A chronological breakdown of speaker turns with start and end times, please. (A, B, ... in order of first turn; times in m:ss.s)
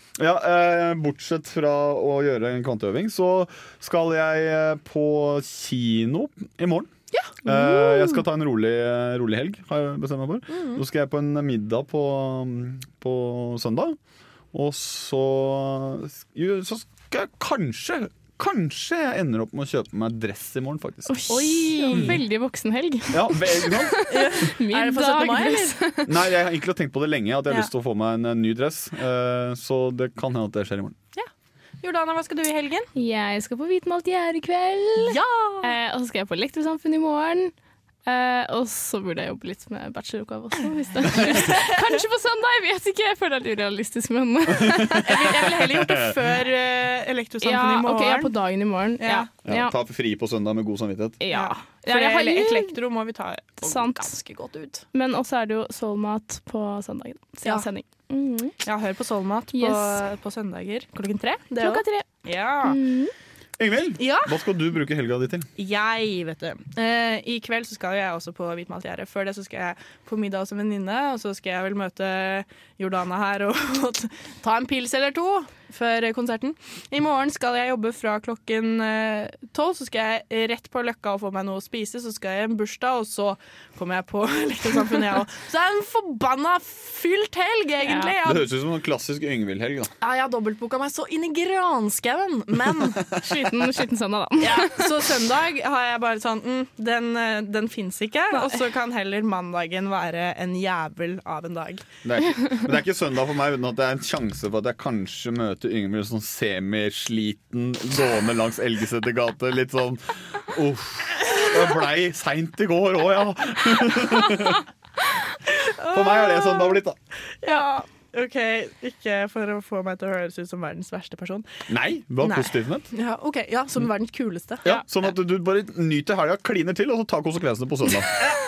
0:00.2-0:06.9 A
0:07.4-0:14.0 A
0:07.5-0:08.1 B
0:10.5-0:10.8 C
0:14.5-0:21.3 A
0:21.1-0:26.1 B
0:21.3-0:22.1 C
0:21.9-0:22.2 A
0:23.1-0:24.0 A
0:24.1-0:25.8 C
0:26.1-0:31.0 A
0:31.8-0:32.9 C
0:32.9-0:37.5 B
0:35.0-0:35.7 C
0:38.0-0:45.3 B
0:45.0-0:48.3 C
0:45.4-0:46.2 A
0:47.4-0:49.7 B
0:49.0-0:49.3 C
0:49.4-0:51.2 A
0:51.2-0:52.7 B
0:51.3-0:54.8 C
0:53.6-0:54.1 B
0:54.9-0:58.6 B
0:58.6-1:02.8 C
0:59.5-1:00.0 B
1:01.6-1:03.1 B
1:03.6-1:05.5 A
1:04.0-1:04.3 C
1:05.6-1:28.5 C
1:27.8-1:28.1 B
1:28.2-1:29.9 A
1:30.0-1:33.1 C
1:33.2-1:34.9 B
1:34.4-1:41.8 C
1:42.0-1:54.6 A
1:55.6-1:56.8 C
1:55.9-1:57.0 A
1:57.4-2:01.7 C
2:01.7-2:02.9 A
2:02.2-2:04.8 C
2:04.6-2:08.1 A